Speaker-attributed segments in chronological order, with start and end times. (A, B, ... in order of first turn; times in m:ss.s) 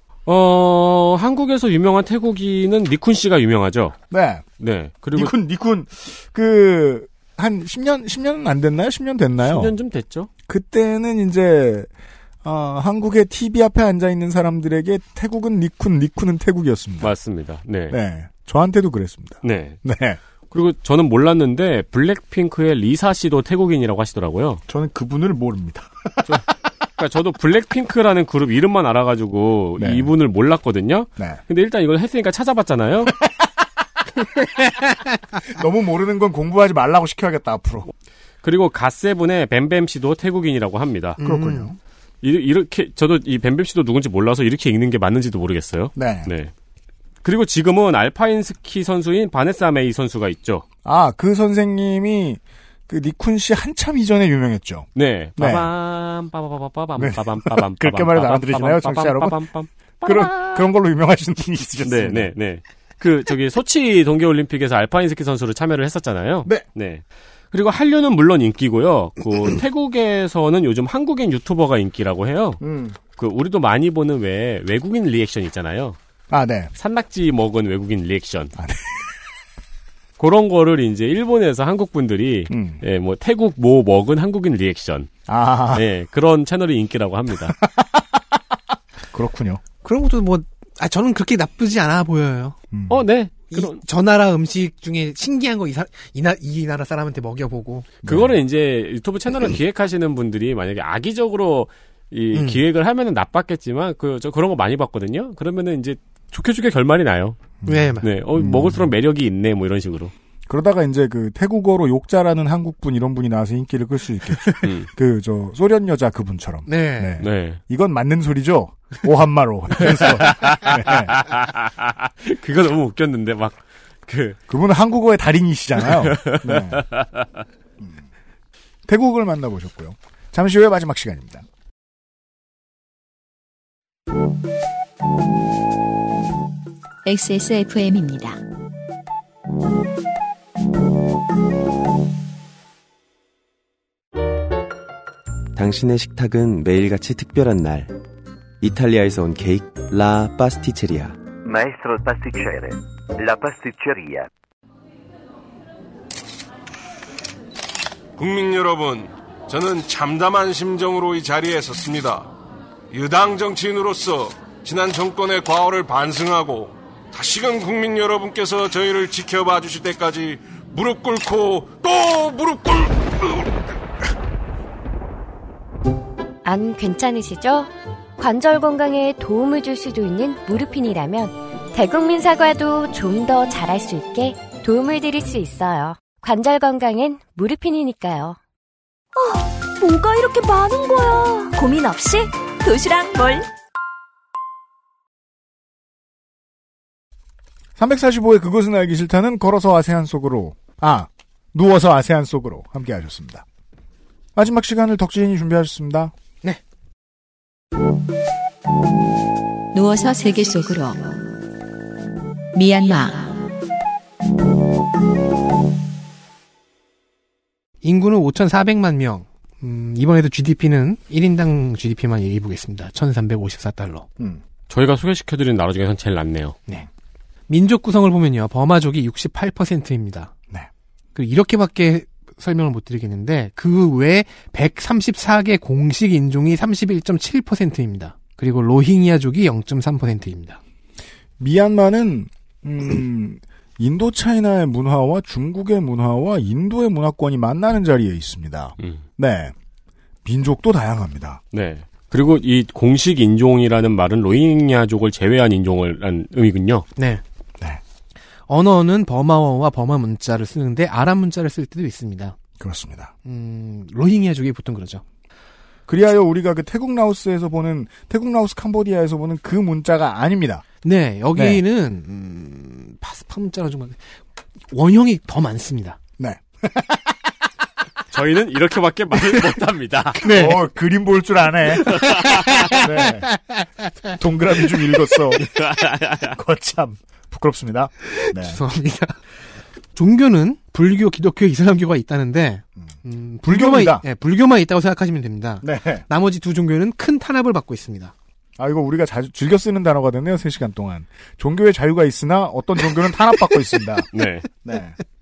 0:00.2-0:03.9 A
0:04.1-0:04.4 B
0:04.6-0:05.3 A
0:05.1-0:09.7 B
0:09.4-0:10.3 A
0:10.5-0:11.9 B
0:12.4-0:17.1 B
0:17.0-0:18.0 A
0:17.9-0:20.2 B
0:19.4-0:19.8 A
0:20.5-0:24.6 A
0:24.7-0:26.4 B
0:27.0-0:33.1 A
0:29.8-0:30.1 B
0:35.4-0:37.9 B
0:38.4-0:41.2 A
0:41.2-0:41.7 C
0:41.2-0:41.8 B
0:42.2-0:46.5 A
0:46.0-0:46.3 B
0:47.2-0:50.6 A
0:50.8-0:55.7 B
0:55.0-1:00.7 A
0:57.0-0:59.4 B
1:00.0-1:02.3 B
1:01.8-1:12.6 A
1:12.6-1:13.0 B
1:13.2-1:16.0 A
1:16.3-1:16.7 B
1:16.8-1:18.5 A
1:18.6-1:19.0 B
1:20.2-1:25.1 A
1:22.5-1:22.8 B
1:25.3-1:25.8 B
1:25.7-1:27.6 A
1:27.5-1:28.2 B
1:29.1-1:29.6 B
1:29.8-1:32.6 C
1:32.7-1:33.0 B
1:32.9-1:33.8 A
1:33.5-1:37.9 C
1:38.0-1:38.3 B
1:38.0-1:47.4 A
1:42.3-1:42.6 C
1:47.6-1:48.8 B
1:47.7-1:48.0 C
1:48.0-1:50.1 A
1:50.5-2:01.2 B
1:56.7-1:57.2 C
1:57.2-1:57.6 A
1:59.8-2:04.4 A
2:04.5-2:06.8 B
2:05.8-2:07.3 A
2:07.8-2:08.0 B
2:08.9-2:11.4 B
2:17.0-2:18.4 D
2:25.5-2:28.0 E
2:28.6-2:31.2 E
2:31.4-2:34.3 F
2:38.2-2:42.3 G
2:42.9-2:53.4 G
2:56.4-3:08.4 H
3:09.1-3:13.5 I
3:17.8-3:23.4 B
3:24.3-3:26.1 B
3:29.7-3:31.2 D
3:32.5-3:33.4 D
3:37.8-3:44.1 C
3:44.7-3:46.6 A
3:47.5-3:50.3 C
3:51.1-4:00.6 C
4:01.4-4:09.5 B
4:10.2-4:11.4 B
4:11.5-4:16.9 A
4:17.0-4:17.2 C
4:18.5-4:22.4 C
4:22.6-4:23.1 B
4:23.2-4:25.0 C
4:25.9-4:30.6 B
4:30.8-4:34.2 C
4:31.3-4:31.6 B
4:34.7-4:36.0 C
4:36.2-4:37.2 B
4:38.1-4:40.4 A
4:40.2-4:40.6 C
4:40.2-4:43.3 B
4:41.9-4:43.6 C
4:42.0-4:42.6 A
4:44.1-4:45.5 B
4:45.4-4:46.4 A
4:46.2-4:48.6 B
4:48.1-4:49.2 C
4:49.9-4:58.1 C
4:53.5-4:54.0 B
4:55.6-4:56.0 B
4:58.6-5:04.1 B
5:04.1-5:04.5 A
5:04.6-5:05.0 B